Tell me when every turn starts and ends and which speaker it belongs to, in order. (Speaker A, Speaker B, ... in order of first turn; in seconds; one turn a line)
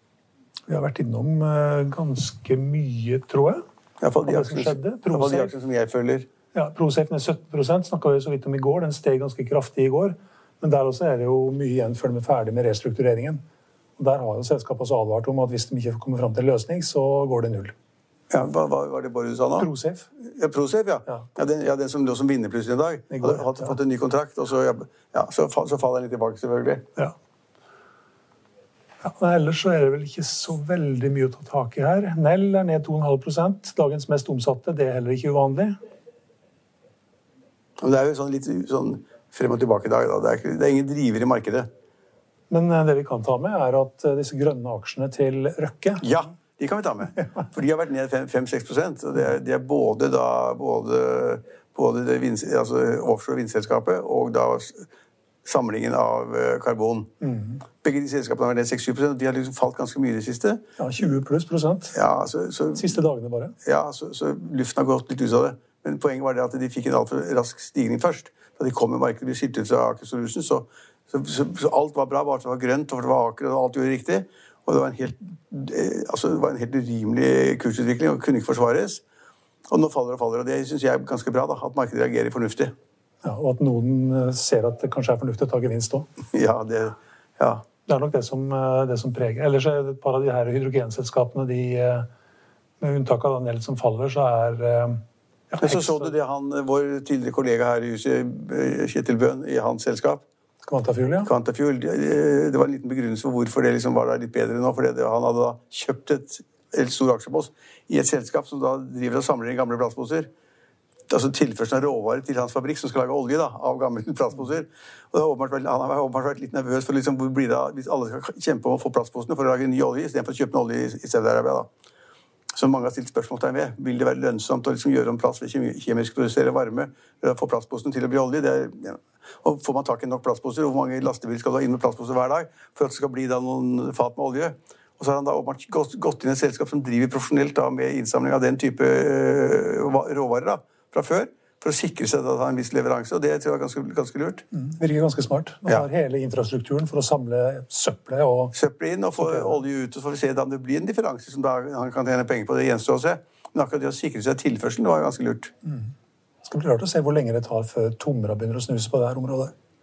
Speaker A: 0.7-3.6
Speaker B: 4.0-6.3
Speaker A: 4.2-5.5
Speaker A: 6.5-13.4
Speaker A: 14.0-17.7
Speaker B: 18.3-19.7
Speaker A: 19.6-20.1
Speaker B: 20.3-26.9
Speaker A: 23.1-23.7
Speaker A: 29.0-35.7
Speaker B: 37.8-41.7
Speaker A: 42.5-46.0
Speaker B: 46.0-54.8
Speaker B: 55.4-57.1
Speaker A: 57.2-57.6
Speaker B: 57.8-60.6
Speaker A: 60.8-62.0
Speaker B: 61.9-62.9
Speaker A: 62.7-63.5
Speaker B: 63.6-79.0
Speaker B: 79.7-82.7
Speaker A: 83.2-86.1
Speaker B: 86.3-87.6
Speaker A: 87.9-92.1
Speaker A: 92.8-96.1
Speaker B: 95.6-100.2
Speaker A: 100.6-101.3
Speaker B: 101.2-110.3
Speaker B: 111.1-121.7
Speaker B: 122.5-144.4
Speaker A: 144.5-148.5
Speaker B: 148.5-155.5
Speaker A: 149.2-149.6
Speaker A: 155.6-155.9
Speaker A: 156.4-159.5